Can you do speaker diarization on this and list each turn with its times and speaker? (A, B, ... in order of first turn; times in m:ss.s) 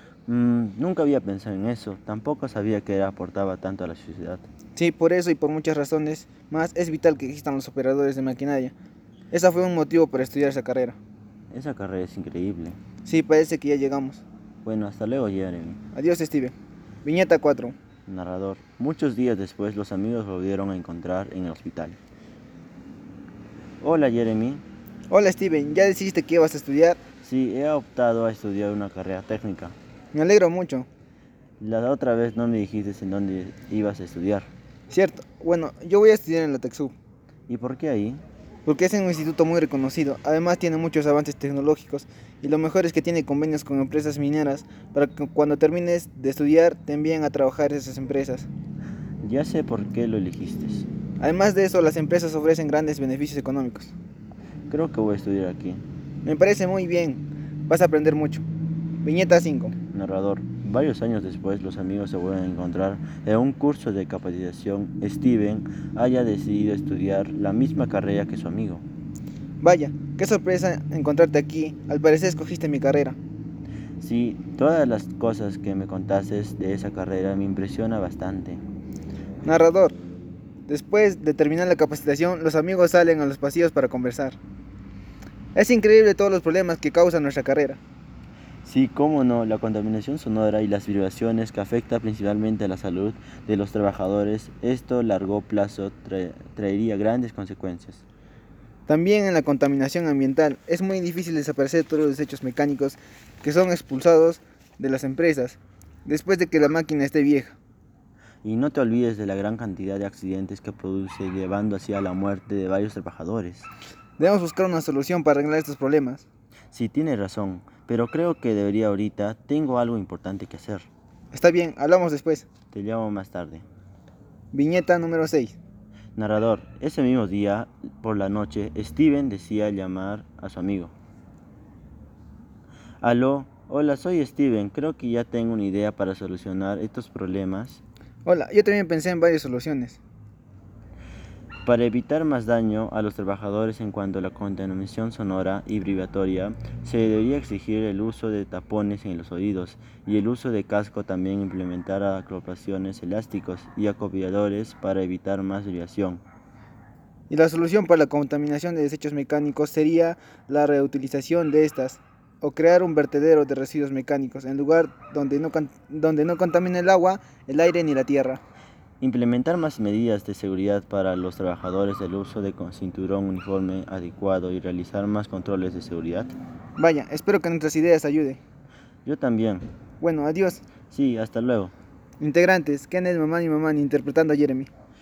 0:00.3-0:04.4 A
0:04.8-0:08.7 B
0:09.3-0:11.0 B
0:11.5-0:12.8 A
0:13.0-0:14.2 B
0:14.6-0:15.8 A
0:15.9-0:17.8 B
0:18.1-0:22.0 A
0:23.8-0:24.6 A
0:25.1-0:27.0 B
0:27.2-0:29.8 A
0:30.1-0:30.9 B
0:31.6-0:34.5 A
0:34.9-0:36.9 B
0:37.5-0:38.2 A
0:38.7-0:48.5 B
0:49.2-0:50.9 A
0:51.2-0:53.9 B
0:54.7-0:55.8 A
0:56.2-0:58.4 B
0:59.0-0:59.8 B
0:59.9-1:08.8 A
1:09.6-1:13.2 B
1:14.0-1:18.6 A
1:19.4-1:20.0 B
1:20.7-1:24.4 B
1:25.6-1:27.8 B
1:28.6-1:38.0 A
1:38.9-1:47.6 B
1:48.4-1:53.7 A
1:54.2-1:56.3 B
1:56.7-2:00.9 A
2:01.3-2:02.5 B
2:02.7-2:03.6 A
2:04.5-2:05.6 B
2:06.2-2:10.9 A
2:13.0-2:17.8 A
2:18.2-2:20.0 B
2:21.6-2:36.2 A
2:37.3-2:48.4 B
2:49.0-2:56.4 A
2:56.8-2:58.4 B
2:59.0-2:59.7 A
3:00.0-3:00.6 B
3:00.9-3:01.7 A
3:02.2-3:04.7 B